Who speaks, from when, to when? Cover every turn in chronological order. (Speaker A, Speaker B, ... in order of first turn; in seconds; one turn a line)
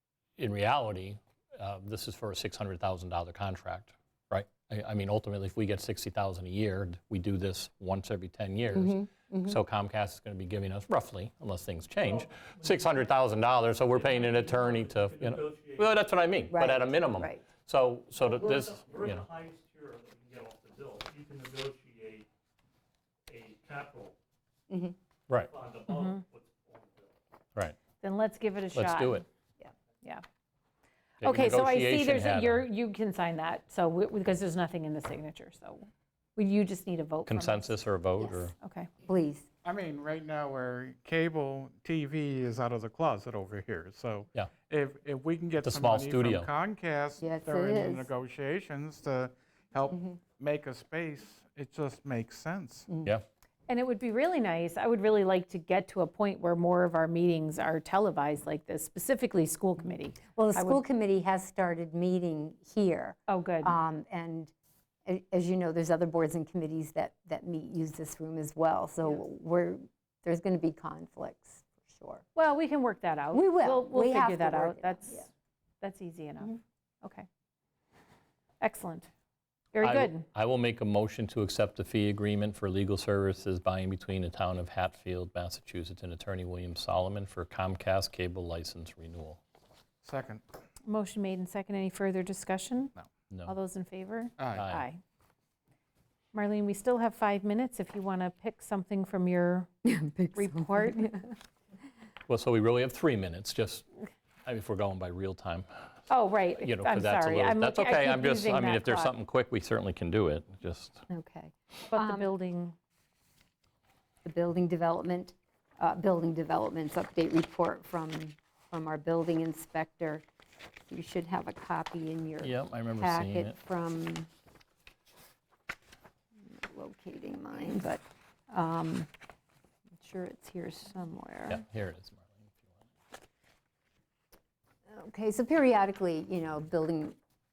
Speaker A: 0.4-19.2
Speaker B: 8.7-9.6
Speaker C: 12.0-13.1
Speaker C: 13.7-16.1
Speaker B: 16.5-17.4
Speaker C: 18.2-22.3
Speaker C: 23.3-24.1
Speaker B: 24.7-24.9
Speaker C: 25.4-27.1
Speaker D: 25.9-26.2
Speaker D: 28.0-29.2
Speaker A: 28.7-29.2
Speaker A: 31.2-32.6
Speaker D: 31.2-37.7
Speaker A: 37.2-38.5
Speaker B: 38.2-38.4
Speaker D: 38.6-38.9
Speaker B: 39.0-39.5
Speaker E: 39.6-52.9
Speaker A: 45.6-46.5
Speaker B: 47.2-48.1
Speaker D: 53.7-60.8
Speaker B: 60.3-64.5
Speaker D: 63.3-63.7
Speaker B: 65.0-72.2
Speaker D: 72.3-75.3
Speaker B: 73.3-75.3
Speaker D: 75.8-77.3
Speaker D: 78.6-79.1
Speaker D: 79.7-80.2
Speaker A: 79.8-89.4
Speaker E: 90.0-90.4
Speaker D: 90.8-92.9
Speaker D: 93.5-95.0
Speaker E: 94.4-94.7
Speaker A: 94.5-94.8
Speaker D: 96.3-99.7
Speaker B: 99.8-101.3
Speaker D: 100.3-101.1
Speaker A: 102.3-103.8
Speaker A: 104.5-105.7
Speaker D: 106.1-109.1
Speaker A: 106.5-111.0
Speaker B: 111.1-112.3
Speaker D: 111.9-112.8
Speaker B: 114.2-120.2
Speaker B: 120.9-124.3
Speaker A: 122.4-123.6
Speaker B: 126.4-129.1
Speaker B: 130.0-131.6
Speaker A: 131.5-132.7
Speaker B: 134.9-137.2